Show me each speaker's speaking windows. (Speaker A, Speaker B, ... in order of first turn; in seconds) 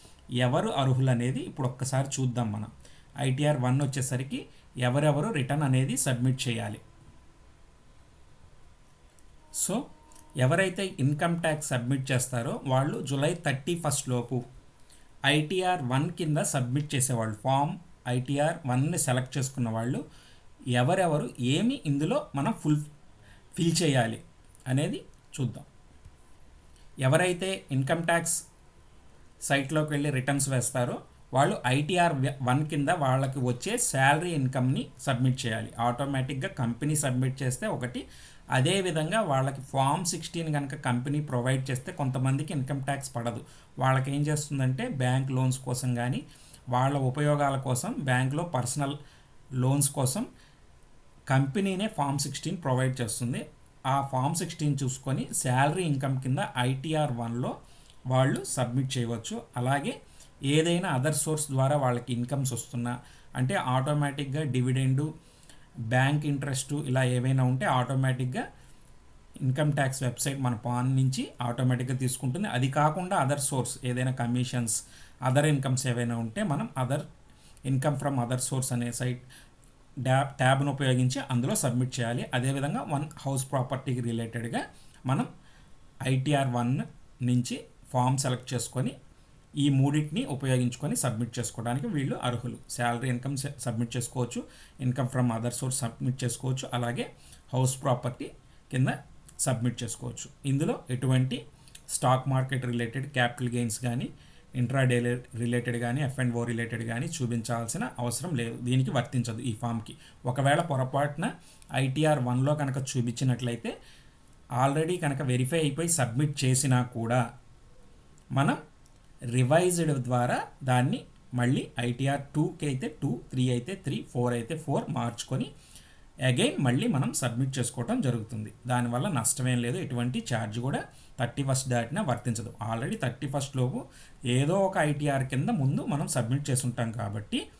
Speaker A: 0.4-2.7, 3.2-6.8, 10.4-14.4, 15.3-20.0, 20.8-22.9, 23.6-25.7, 27.0-28.4, 29.5-38.0, 38.5-49.0, 49.6-50.3, 51.3-57.5, 58.1-59.9, 60.5-65.1, 65.9-68.4, 69.4-77.0, 77.7-79.2, 80.0-85.3, 86.0-88.9, 89.6-113.7, 114.6-117.2, 119.3-125.5, 126.3-133.8, 134.3-137.4